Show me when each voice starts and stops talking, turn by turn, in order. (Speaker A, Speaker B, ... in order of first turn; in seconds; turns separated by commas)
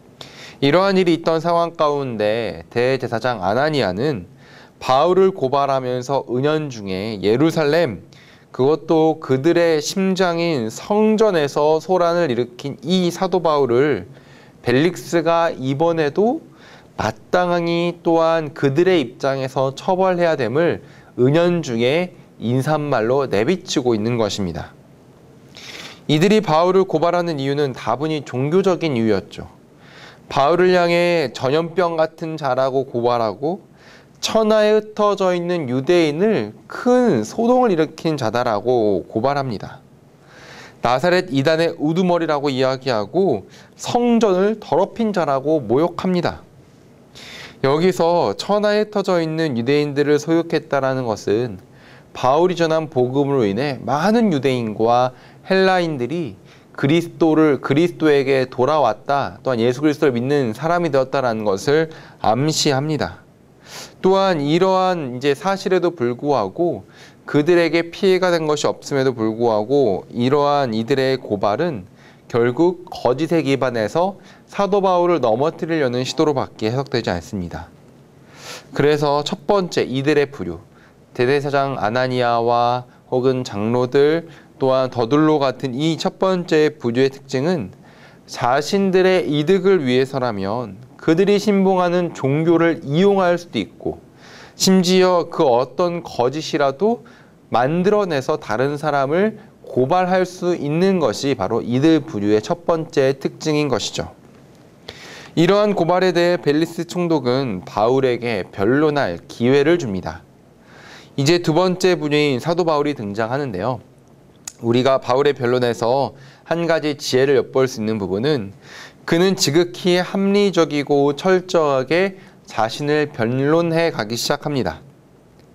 Speaker A: 0.6-14.1, Speaker A: 14.6-24.7, Speaker A: 26.1-29.5, Speaker A: 30.3-33.6, Speaker A: 34.2-39.8, Speaker A: 40.8-46.4, Speaker A: 47.6-51.6, Speaker A: 52.1-63.2, Speaker A: 64.0-77.7, Speaker A: 78.7-87.8, Speaker A: 88.3-94.0, Speaker A: 94.6-104.1, Speaker A: 105.4-110.2, Speaker A: 111.2-113.8, Speaker A: 114.6-124.8